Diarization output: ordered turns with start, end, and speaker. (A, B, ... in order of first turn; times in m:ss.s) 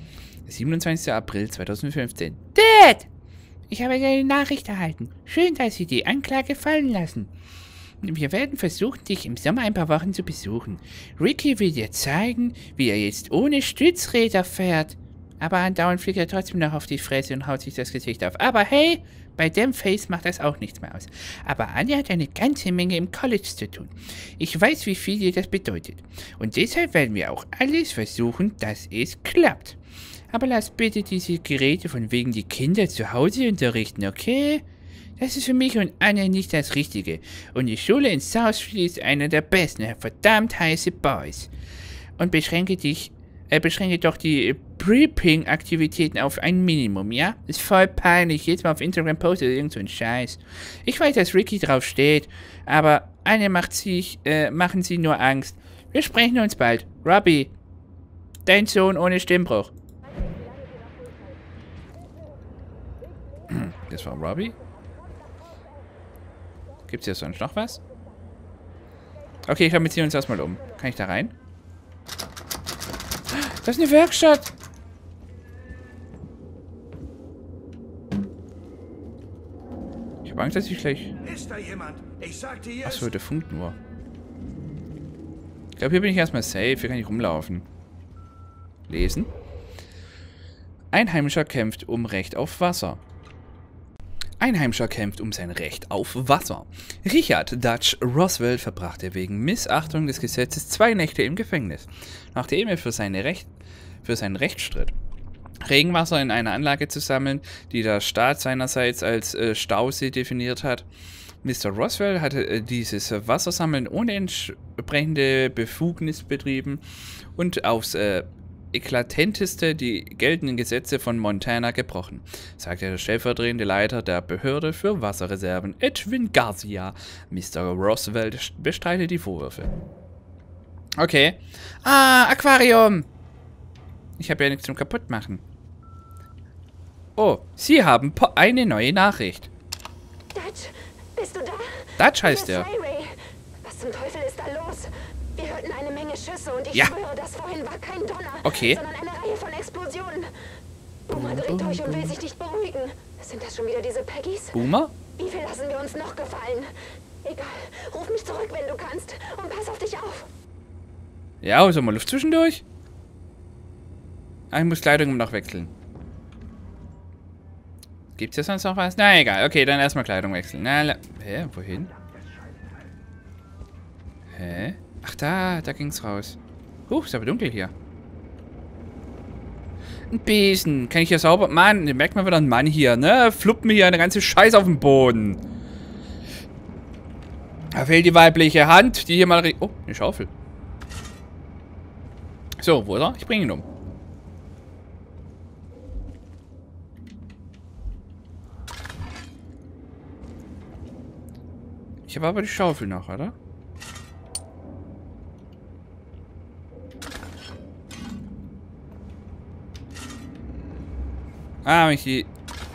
0:00.4-0:03.1 A
0:03.7-0:07.3 A
0:08.0-0:29.8 A
0:30.3-0:34.6 A
0:35.2-0:41.5 A
0:42.2-0:57.5 A
0:58.4-0:59.7 A
1:03.5-1:04.6 A
1:06.9-1:07.8 A
1:09.5-1:11.3 A
1:13.3-1:14.5 A
1:20.2-1:21.1 A
1:21.2-1:23.1 B
1:22.8-1:23.8 A
1:25.8-1:27.7 A
1:28.9-1:29.3 A
1:30.9-1:33.0 A
1:34.4-1:43.5 A
1:44.0-1:44.9 A
1:45.6-1:50.8 A
1:51.4-1:56.8 A
1:57.4-2:09.7 A
2:11.0-2:13.1 A
2:14.2-2:15.4 A
2:17.2-2:19.5 A
2:20.3-2:30.3 C
2:22.0-2:22.7 A
2:28.4-2:28.8 A
2:31.1-2:34.6 C
2:31.1-2:32.1 A
2:34.5-2:34.9 A
2:35.2-2:36.7 C
2:37.2-2:40.3 C
2:41.4-2:42.6 A
2:44.5-2:45.7 A
2:48.2-2:51.9 A
2:51.9-2:52.9 B
2:54.3-2:57.7 A
3:00.1-3:05.4 A
3:07.7-3:10.3 A
3:12.6-3:13.6 A
3:22.1-3:23.3 A
3:31.6-3:32.3 A